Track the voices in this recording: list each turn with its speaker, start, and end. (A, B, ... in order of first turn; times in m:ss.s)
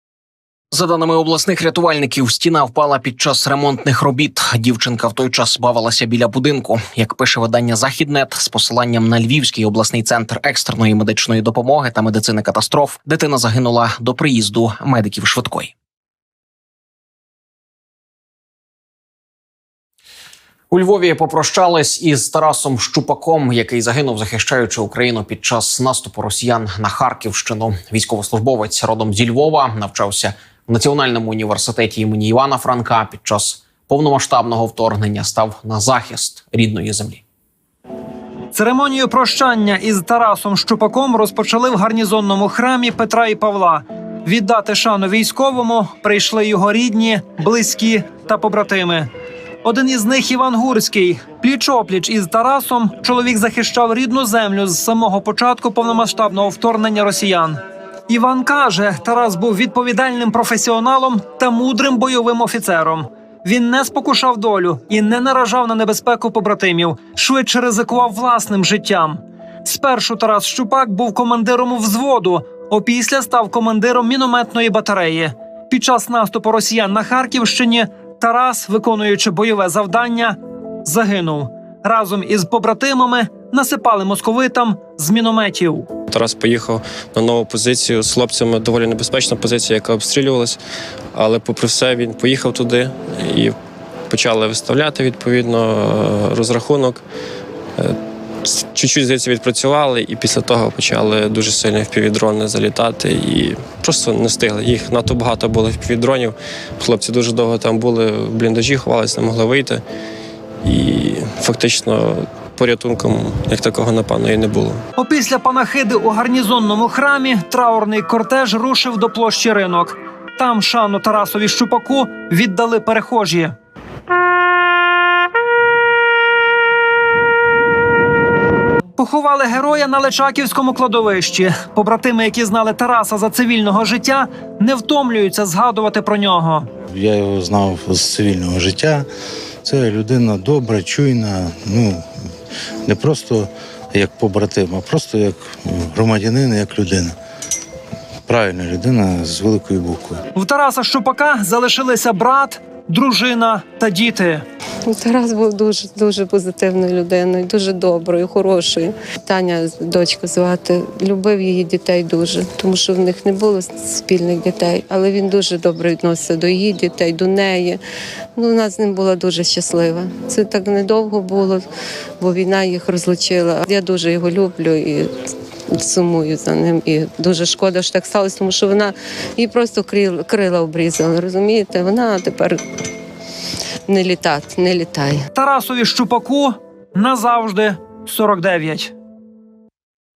0:00.7-0:15.7 A
0:20.7-0:37.2 A
0:38.5-0:49.1 B
0:49.6-1:25.9 B
1:26.1-1:30.6 C
1:31.1-1:33.5 C
1:34.1-1:37.0 C
1:37.8-1:49.8 C
1:50.6-1:54.8 C
1:55.0-2:03.5 B
2:09.0-2:16.7 B
2:16.9-2:19.1 D
2:19.6-2:22.0 D
2:22.8-2:27.1 D
2:28.3-2:30.2 D
2:30.3-2:34.4 B
2:34.9-2:47.8 E
2:48.4-2:51.7 E
2:52.2-2:55.1 E
2:55.7-3:02.6 E
3:03.9-3:05.2 E
3:05.3-3:08.9 B